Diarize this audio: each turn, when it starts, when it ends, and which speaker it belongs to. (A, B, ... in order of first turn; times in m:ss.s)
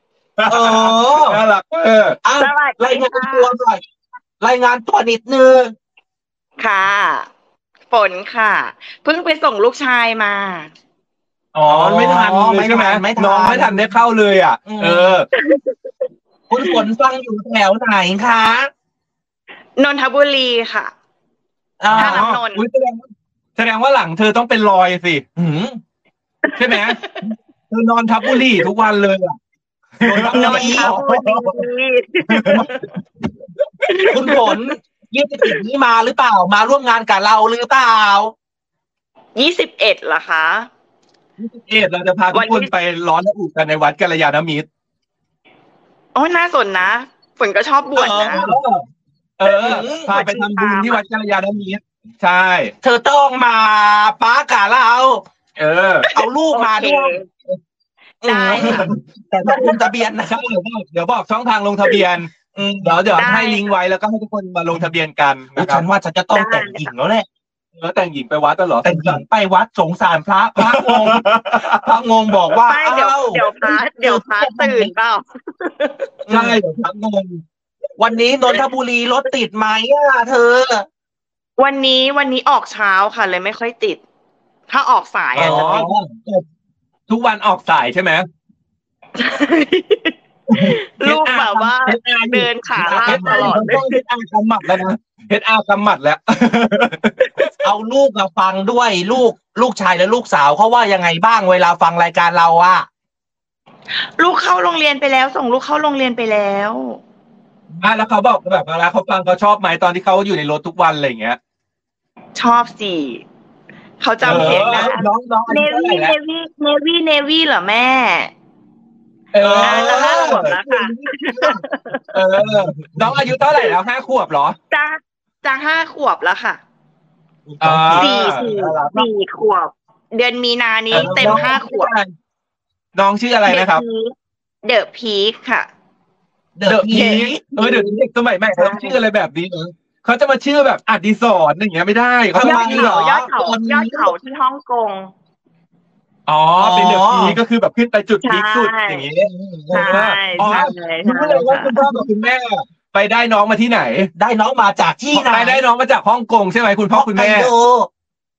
0:00.4-0:02.2 A
0:00.5-0:01.4 B
0:02.2-0:03.8 B
0:02.3-0:03.5 C
0:04.4-0:05.8 B
0:06.6-0:07.3 C
0:07.9-0:10.7 C
0:11.6-0:13.9 B
0:11.6-0:15.3 A
0:14.7-0:15.2 B
0:15.4-0:15.7 C
0:16.5-0:18.7 B
0:19.8-0:20.9 C
0:21.8-0:22.3 B
0:21.9-0:25.3 A
0:21.9-0:22.6 C
0:25.4-0:25.8 B
0:26.5-0:27.1 C
0:26.6-0:29.4 A
0:30.0-0:31.6 A
0:30.0-0:31.1 B
0:30.3-0:32.8 C
0:32.3-0:32.7 A
0:33.9-0:34.6 C
0:34.1-0:38.3 B
0:39.4-0:40.7 C
0:41.4-0:44.7 A
0:42.3-0:42.7 C
0:46.2-0:48.4 C
0:48.0-0:48.6 B
0:48.0-0:48.8 A
0:49.4-0:52.7 A
0:49.5-0:50.1 B
0:50.1-0:51.0 C
0:52.8-0:55.2 B
0:55.6-0:56.1 A
0:56.1-0:57.2 B
0:56.5-0:57.3 C
0:58.2-1:00.4 B
0:58.2-0:58.9 C
0:58.6-1:02.3 A
1:02.5-1:03.2 B
1:02.8-1:05.8 A
1:03.2-1:03.7 C
1:05.6-1:07.3 B
1:06.3-1:06.9 C
1:07.8-1:09.2 A
1:08.8-1:14.9 B
1:10.6-1:11.8 A
1:12.7-1:16.1 C
1:16.3-1:16.6 B
1:16.3-1:17.4 A
1:18.0-1:20.9 B
1:21.6-1:24.0 C
1:24.7-1:25.8 C
1:25.4-1:26.4 A
1:25.4-1:26.2 B
1:27.1-1:28.3 A
1:29.2-1:34.0 C
1:30.5-1:37.3 A
1:32.8-1:34.8 B
1:37.6-1:42.9 B
1:44.2-1:47.0 C
1:47.8-1:51.4 A
1:52.4-1:53.2 C
1:54.0-1:58.3 C
1:54.2-1:56.0 B
1:54.2-1:56.1 A
1:59.3-2:00.6 A
1:59.4-2:01.6 B
1:59.4-2:02.1 C
2:02.1-2:04.6 A
2:02.4-2:03.3 B
2:04.7-2:06.6 C
2:07.5-2:08.5 B
2:07.6-2:09.0 A
2:07.9-2:11.9 C
2:10.9-2:12.1 A
2:10.9-2:11.6 B
2:13.0-2:13.8 A
2:13.5-2:15.7 C
2:16.6-2:17.5 B
2:16.7-2:23.0 A
2:16.9-2:17.9 C
2:18.6-2:19.0 C
2:22.3-2:24.1 B
2:22.4-2:25.1 C
2:26.3-2:34.1 A
2:26.6-2:27.4 B
2:28.2-2:29.0 C
2:29.3-2:30.6 B
2:29.7-2:31.8 C
2:34.2-2:35.6 B
2:35.1-2:37.5 A
2:36.9-2:37.9 B